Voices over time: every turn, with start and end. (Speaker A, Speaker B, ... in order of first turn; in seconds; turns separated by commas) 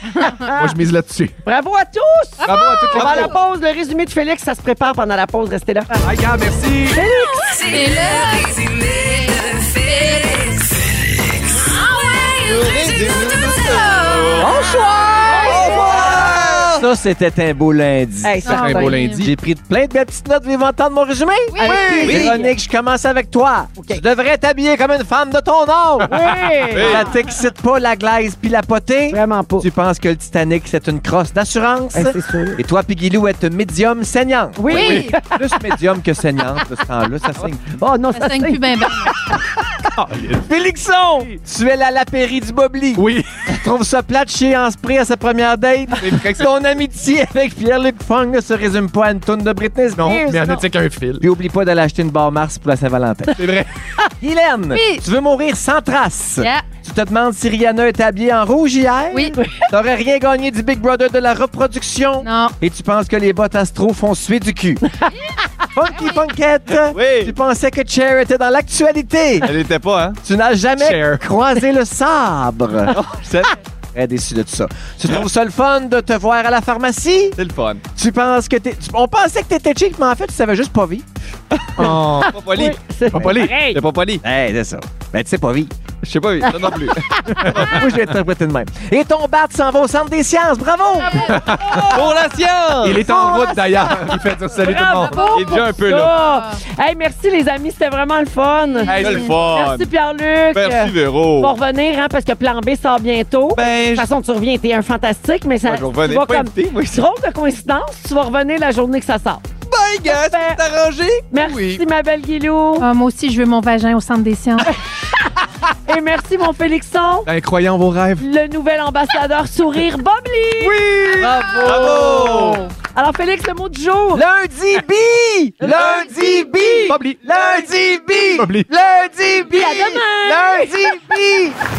Speaker A: 0.2-0.7, Speaker B: 0.3-1.4, Speaker A: 1.4-5.9, Speaker C: 2.4-3.3, Speaker B: 2.4-3.4, Speaker B: 6.0-7.0, Speaker A: 6.9-7.9, Speaker C: 7.2-8.5, Speaker D: 7.4-10.9, Speaker C: 9.2-10.2, Speaker D: 11.4-13.7, Speaker E: 12.4-14.2, Speaker C: 13.7-15.8, Speaker F: 14.3-18.4, Speaker E: 15.3-16.9, Speaker B: 15.9-16.7, Speaker A: 18.2-19.0, Speaker C: 18.4-19.3, Speaker B: 18.5-19.3, Speaker F: 19.2-37.7, Speaker C: 21.5-22.5, Speaker B: 21.6-22.3, Speaker A: 21.7-22.2, Speaker E: 22.0-22.4, Speaker A: 23.8-24.0, Speaker A: 26.1-27.1, Speaker B: 26.1-26.9, Speaker C: 27.1-27.4, Speaker A: 29.1-29.7, Speaker A: 31.9-32.6, Speaker A: 34.6-35.4, Speaker C: 34.7-35.3, Speaker A: 37.8-39.1, Speaker C: 38.1-39.1, Speaker B: 39.8-40.4, Speaker F: 40.4-50.5, Speaker B: 42.9-43.5, Speaker B: 46.0-46.5, Speaker B: 49.9-51.2, Speaker A: 50.1-50.6, Speaker F: 51.2-53.4, Speaker B: 53.3-53.9, Speaker F: 54.2-64.8, Speaker C: 54.7-55.1, Speaker C: 56.4-56.7, Speaker C: 59.1-59.4, Speaker C: 62.2-62.5, Speaker C: 65.2-66.2, Speaker F: 65.7-69.5, Speaker E: 66.9-67.3, Speaker E: 69.4-70.2, Speaker F: 70.2-73.0, Speaker B: 70.8-71.2, Speaker E: 72.9-73.6, Speaker F: 73.9-77.3, Speaker E: 77.3-77.8, Speaker F: 77.9-81.0, Speaker E: 81.5-84.2, Speaker B: 81.8-82.4, Speaker A: 81.8-83.8, Speaker B: 83.1-83.6, Speaker F: 84.2-85.7, Speaker E: 86.0-87.9, Speaker A: 86.4-87.6, Speaker B: 87.3-88.0, Speaker F: 87.5-91.3, Speaker C: 91.1-91.5, Speaker B: 91.2-92.0, Speaker A: 91.2-92.1, Speaker E: 91.9-93.1, Speaker B: 92.8-95.2, Speaker A: 93.1-93.9, Speaker A: 94.5-109.4, Speaker C: 94.9-96.6, Speaker E: 95.3-96.2, Speaker C: 98.7-99.3, Speaker B: 98.8-99.3, Speaker E: 98.9-99.9, Speaker E: 100.5-101.5, Speaker E: 103.5-104.1, Speaker E: 105.6-107.0, Speaker E: 109.7-111.7, Speaker A: 110.0-110.6, Speaker A: 111.3-112.8, Speaker C: 112.8-114.7, Speaker A: 115.8-117.3, Speaker B: 117.2-118.2, Speaker A: 118.2-124.2, Speaker B: 120.6-122.4, Speaker E: 121.0-122.6, Speaker F: 124.1-131.5, Speaker B: 125.6-127.2, Speaker A: 125.6-126.9, Speaker B: 128.4-128.7, Speaker A: 129.5-130.7, Speaker B: 130.4-131.2